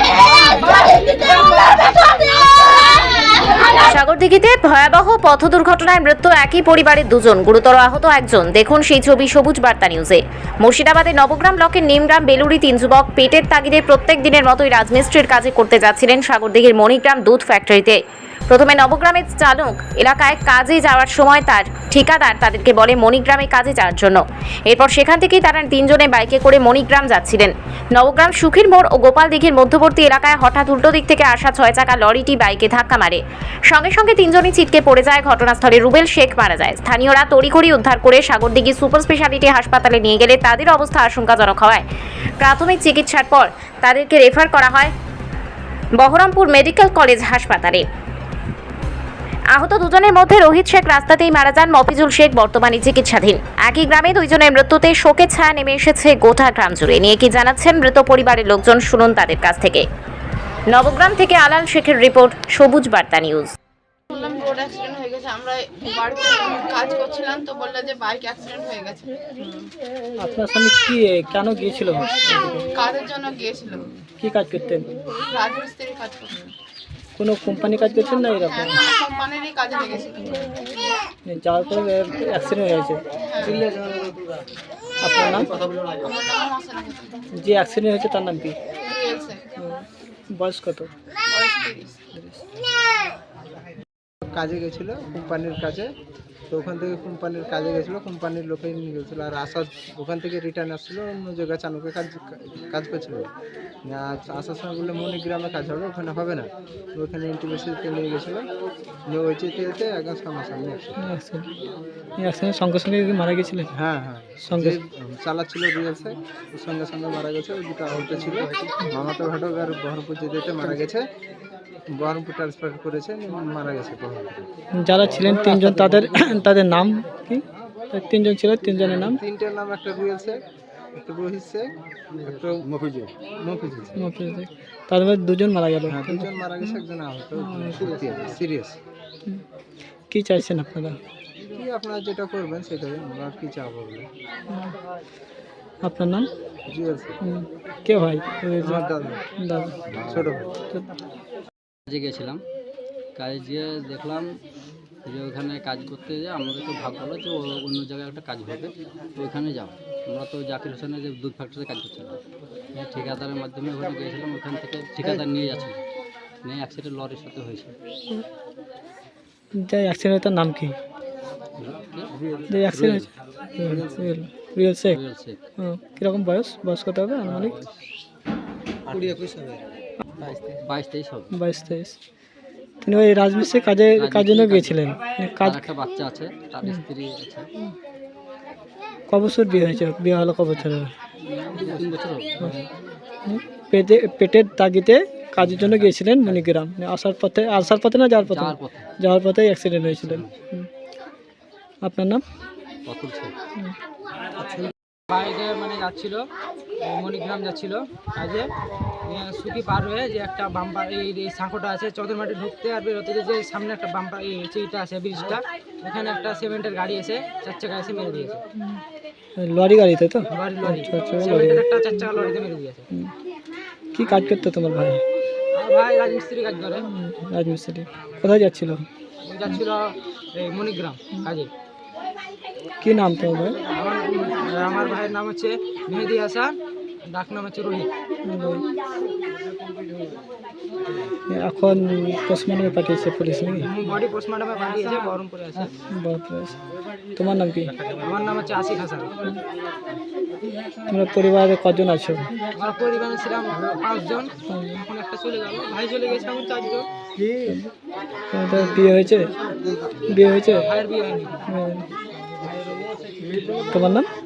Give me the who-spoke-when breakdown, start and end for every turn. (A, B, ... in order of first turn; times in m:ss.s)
0:03.7-0:41.8 A
0:42.4-0:44.9 A
0:46.0-0:47.8 A
0:49.5-0:59.8 A
1:00.7-1:03.5 A
1:04.1-1:09.1 B
1:09.4-1:12.6 C
1:12.7-1:13.9 B
1:13.7-1:14.9 C
1:15.3-1:16.4 B
1:17.2-1:18.8 C
1:18.3-1:20.4 B
1:21.2-1:23.7 C
1:23.2-1:23.7 B
1:25.0-1:25.5 C
1:25.9-1:27.2 B
1:27.4-1:28.6 C
1:28.9-1:29.4 B
1:29.6-1:30.9 C
1:31.3-1:32.0 B
1:34.3-1:35.9 D
1:36.5-1:43.3 D
1:43.8-1:48.4 D
1:49.1-1:51.0 D
1:51.0-1:51.5 C
1:52.2-1:53.7 C
1:53.7-2:01.0 D
1:54.4-1:54.8 C
2:02.0-2:04.4 D
2:04.8-2:09.2 C
2:08.9-2:10.4 D
2:10.9-2:11.7 D
2:12.2-2:12.7 D
2:13.4-2:14.0 D
2:14.0-2:16.8 C
2:15.9-2:18.8 D
2:17.4-2:17.9 C
2:20.1-2:21.0 C
2:21.5-2:24.1 D
2:25.8-2:26.3 C
2:26.7-2:27.2 D
2:27.2-2:28.8 C
2:28.6-2:29.2 D
2:29.4-2:29.7 C
2:29.9-2:30.5 D
2:31.9-2:32.4 E
2:33.2-2:34.4 E
2:35.0-2:42.2 E
2:42.8-2:45.8 E
2:46.4-2:47.7 E
2:49.6-2:50.8 C
2:51.6-2:52.1 E
2:52.1-2:52.5 D
2:52.5-2:55.0 C
2:52.7-2:53.1 E
2:53.6-2:54.0 D
2:54.9-2:55.4 E
2:55.6-2:57.6 C
2:57.2-2:57.7 E
2:58.9-2:59.4 D
3:00.5-3:01.3 E
3:01.3-3:02.0 C
3:02.8-3:05.7 C
3:04.0-3:04.8 E
3:05.4-3:07.5 E
3:09.1-3:10.9 C
3:11.2-3:12.6 E
3:13.2-3:20.7 C
3:15.4-3:16.5 E
3:18.2-3:18.9 E
3:19.8-3:20.3 E
3:21.8-3:22.2 C
3:22.8-3:23.3 E
3:24.4-3:24.6 D
3:25.1-3:26.2 F
3:26.8-3:28.5 F
3:29.1-3:38.4 F
3:39.4-3:42.1 C
3:40.3-3:42.8 F
3:43.9-3:45.0 C
3:45.6-3:46.8 F
3:46.9-3:48.8 C
3:49.2-3:51.5 F
3:52.8-3:53.6 C
3:53.6-3:56.5 F
3:57.1-3:57.9 F
3:58.2-3:58.6 C
4:01.3-4:03.7 C
4:03.6-4:05.7 F
4:05.9-4:06.6 C
4:07.2-4:07.7 C
4:08.0-4:09.1 F
4:10.9-4:12.3 C
4:12.5-4:14.3 F
4:14.5-4:14.8 C
4:14.8-4:16.9 F
4:17.4-4:17.7 C
4:18.3-4:19.3 C
4:20.1-4:20.7 C
4:20.5-4:21.4 F
4:21.5-4:21.8 C
4:23.7-4:24.1 C